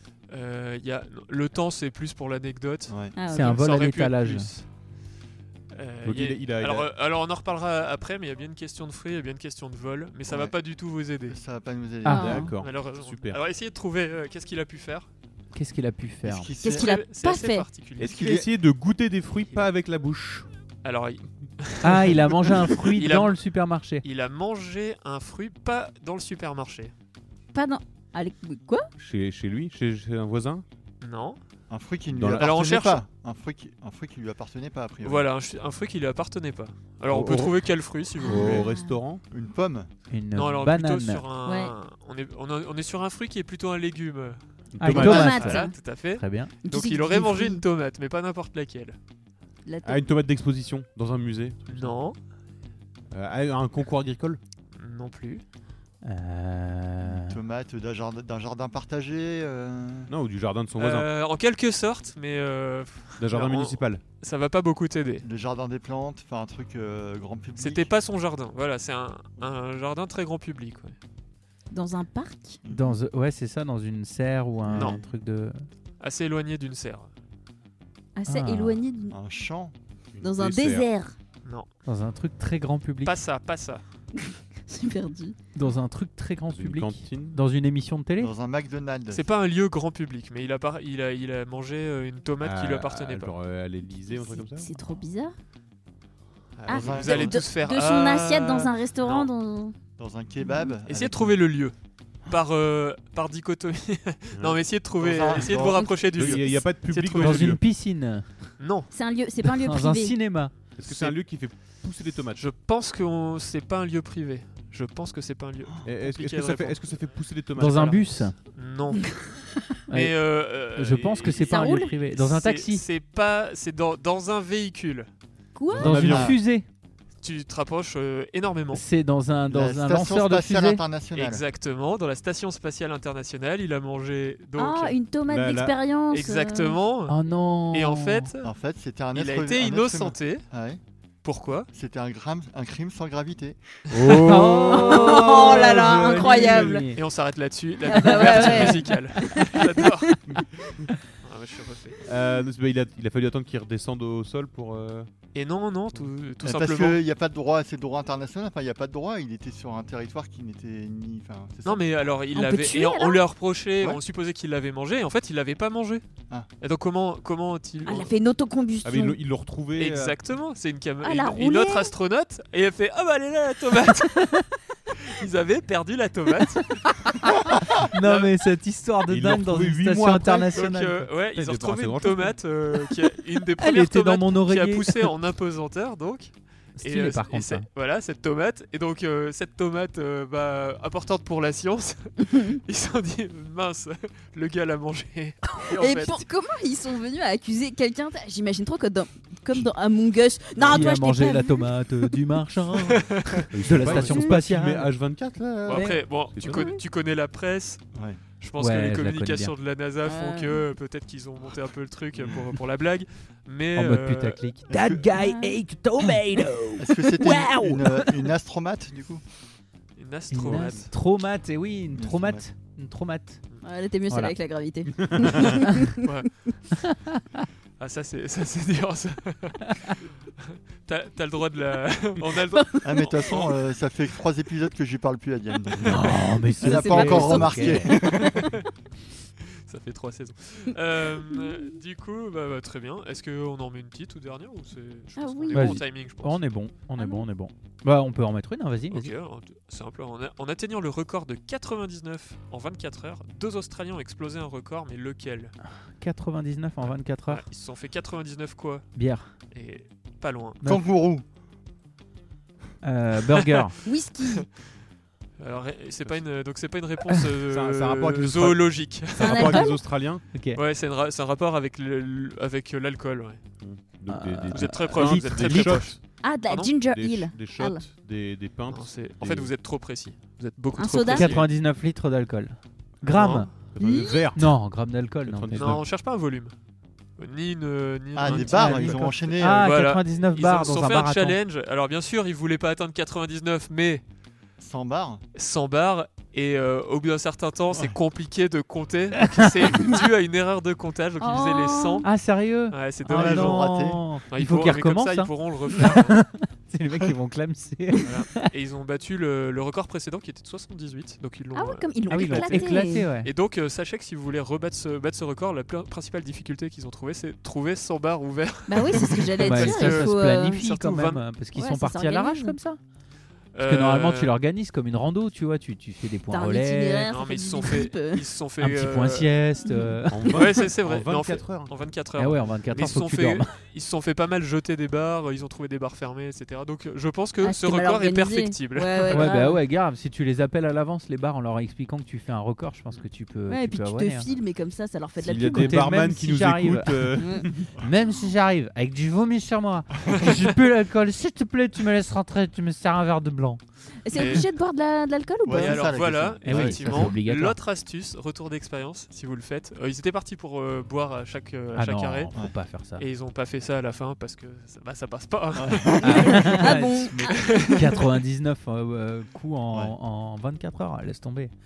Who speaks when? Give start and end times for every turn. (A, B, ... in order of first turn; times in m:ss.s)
0:00.3-0:04.6 A
0:02.9-0:03.1 B
0:03.2-0:03.6 C
0:03.3-0:04.5 D
0:05.7-0:11.4 A
0:06.0-0:06.9 E
0:10.3-0:10.5 B
0:11.3-0:12.5 B
0:12.0-0:12.5 D
0:12.0-0:12.5 C
0:12.1-0:13.4 E
0:12.6-0:15.1 A
0:15.5-0:16.5 D
0:16.2-0:17.0 B
0:16.6-0:17.7 C
0:16.6-0:18.2 A
0:18.0-0:20.5 E
0:18.0-0:18.5 B
0:20.8-0:23.4 A
0:21.8-0:24.0 D
0:24.0-0:26.9 A
0:27.5-0:28.9 C
0:29.0-0:30.6 E
0:31.0-0:31.4 A
0:31.7-0:35.3 B
0:32.1-0:32.5 E
0:32.4-0:33.0 A
0:35.0-0:38.6 A
0:37.1-0:39.2 E
0:38.2-0:39.0 C
0:38.3-0:38.6 B
0:39.3-0:39.9 B
0:40.1-0:41.2 D
0:40.3-0:44.4 A
0:41.4-0:41.7 C
0:44.7-0:45.6 E
0:44.8-0:45.6 D
0:44.8-0:45.8 C
0:44.9-0:49.0 A
0:46.2-0:46.5 D
0:46.6-0:47.6 C
0:49.6-0:50.0 C
0:49.8-0:52.0 E
0:51.7-0:52.2 A
0:53.1-0:54.4 E
0:54.8-0:55.4 A
0:56.0-0:57.4 D
0:57.0-1:00.1 B
1:00.1-1:01.1 E
1:00.8-1:05.2 A
1:03.2-1:04.0 E
1:05.2-1:07.9 B
1:07.6-1:11.0 A
1:11.7-1:12.6 C
1:12.6-1:13.0 B
1:12.7-1:15.6 D
1:14.7-1:15.0 B
1:16.0-1:17.1 A
1:18.2-1:19.2 C
1:18.3-1:18.8 D
1:19.1-1:19.7 B
1:20.1-1:20.9 E
1:20.2-1:21.1 C
1:21.8-1:23.2 D
1:23.0-1:23.8 A
1:24.7-1:25.4 C
1:25.5-1:28.3 D
1:26.5-1:27.4 E
1:28.2-1:29.2 B
1:29.1-1:33.3 A
1:32.4-1:34.7 E
1:34.0-1:35.3 C
1:36.6-1:39.3 A
1:36.6-1:39.8 C
1:36.7-1:37.4 B
1:40.0-1:41.3 B
1:40.4-1:40.7 C
1:40.8-1:41.7 A
1:42.2-1:47.6 A
1:44.3-1:44.6 E
1:45.0-1:46.4 B
1:46.1-1:47.6 E
1:47.1-1:48.3 D
1:48.6-1:48.9 A
1:48.9-1:50.2 C
1:49.6-1:50.5 D
1:50.8-1:52.5 E
1:50.8-1:51.2 A
1:52.4-1:57.1 A
1:55.8-1:58.2 E
1:57.6-1:58.3 D
1:58.5-1:59.3 A
1:59.9-2:02.8 D
1:59.9-2:05.1 A
2:05.5-2:06.1 C
2:05.7-2:06.4 E
2:05.8-2:06.6 D
2:06.0-2:06.4 B
2:07.2-2:08.8 A
2:08.7-2:10.8 D
2:09.5-2:11.4 B
2:11.1-2:15.0 A
2:14.6-2:16.8 C
2:15.3-2:15.8 E
2:16.1-2:17.2 A
2:17.1-2:18.3 D
2:17.7-2:18.5 A
2:18.4-2:20.8 B
2:19.1-2:20.4 A
2:21.2-2:21.7 A
2:21.7-2:23.6 B
2:23.9-2:25.0 E
2:24.1-2:27.0 D
2:24.7-2:26.9 C
2:25.6-2:26.6 B
2:26.9-2:30.1 A
2:27.8-2:30.2 C
2:28.0-2:28.8 D
2:31.2-2:32.0 A
2:32.0-2:35.1 E
2:35.3-2:37.0 A
2:36.4-2:42.1 B
2:41.6-2:46.0 A
2:42.3-2:43.2 C
2:46.6-2:48.1 A
2:47.8-2:49.2 C
2:48.8-2:50.2 E
2:49.8-2:57.0 A
2:51.0-2:51.9 C
2:57.1-3:01.1 D
2:58.0-2:58.3 A
2:59.1-3:00.7 E
3:00.5-3:16.2 A
3:01.3-3:02.4 E
3:03.6-3:05.1 D
3:06.8-3:07.6 D
3:15.6-3:21.7 C
3:20.7-3:24.9 D
3:22.9-3:24.0 A
3:23.5-3:26.7 E
3:25.6-3:27.8 A
3:25.7-3:26.0 D
3:26.4-3:26.8 C
3:28.4-3:34.4 A
3:28.6-3:29.5 D
3:30.0-3:30.6 C
3:32.2-3:32.4 E
3:33.8-3:38.3 D
3:34.7-3:35.1 B
3:35.1-3:35.5 C
3:36.8-3:39.2 B
3:40.0-3:40.9 A
3:40.3-3:43.4 D
3:41.9-3:42.4 B
3:43.6-3:46.0 C
3:44.1-3:44.3 D
3:45.0-3:45.5 E
3:46.0-3:46.4 A
3:47.8-3:53.5 A
3:52.6-3:52.8 C
3:52.8-3:58.6 B
3:55.8-3:57.9 D
3:56.6-3:58.0 C
3:58.3-3:58.6 A
3:59.6-4:06.4 A
4:05.2-4:05.8 C
4:05.5-4:09.1 D
4:07.0-4:07.2 C
4:08.9-4:15.6 A
4:16.0-4:17.4 D
4:17.3-4:18.9 A
4:19.0-4:19.3 D
4:19.5-4:20.6 A
4:20.6-4:21.2 B
4:22.8-4:23.8 D
4:23.8-4:24.4 C
4:25.4-4:29.7 A
4:27.5-4:30.2 E
4:29.2-4:29.8 C
4:30.3-4:30.6 D
4:30.5-4:33.4 A
4:33.6-4:36.0 E
4:34.1-4:35.8 D
4:34.5-4:36.7 A
4:36.2-4:37.8 C
4:36.8-4:39.5 E
4:38.7-4:41.5 A
4:40.7-4:41.4 C
4:41.1-4:43.5 D
4:43.1-4:43.5 A
4:43.7-4:44.5 E
4:43.8-4:44.2 C
4:44.3-4:45.8 D
4:45.2-4:45.8 E
4:45.5-4:46.5 A
4:47.2-4:54.0 A
4:48.1-4:49.7 B
4:48.3-4:51.4 D
4:54.6-4:55.2 B
4:55.3-5:02.0 A
4:59.4-4:59.9 D
5:01.2-5:02.1 C
5:02.0-5:08.5 D
5:02.7-5:03.7 A
5:03.0-5:04.1 B
5:04.3-5:06.2 A
5:08.0-5:21.2 A
5:11.5-5:13.1 C
5:12.1-5:13.3 D
5:18.7-5:20.6 C
5:19.4-5:22.8 D
5:21.5-5:22.6 C
5:23.5-5:24.3 A
5:23.6-5:27.1 D
5:26.3-5:28.2 C
5:27.1-5:29.4 A
5:28.6-5:30.4 D
5:29.6-5:30.0 C
5:30.1-5:31.7 E
5:30.3-5:39.3 A
5:32.2-5:33.5 D
5:37.4-5:39.6 C
5:39.1-5:44.3 D
5:43.5-5:45.8 C
5:45.2-5:47.5 E
5:45.4-5:53.6 D
5:47.2-5:47.5 C
5:54.0-5:55.9 C
5:54.1-5:54.5 A
5:55.4-5:57.1 B
5:55.5-6:02.3 A
5:56.4-5:57.6 D
6:01.7-6:03.0 D
6:03.0-6:06.5 A
6:05.6-6:06.6 B
6:06.0-6:11.5 D
6:06.3-6:08.0 C
6:07.3-6:07.8 A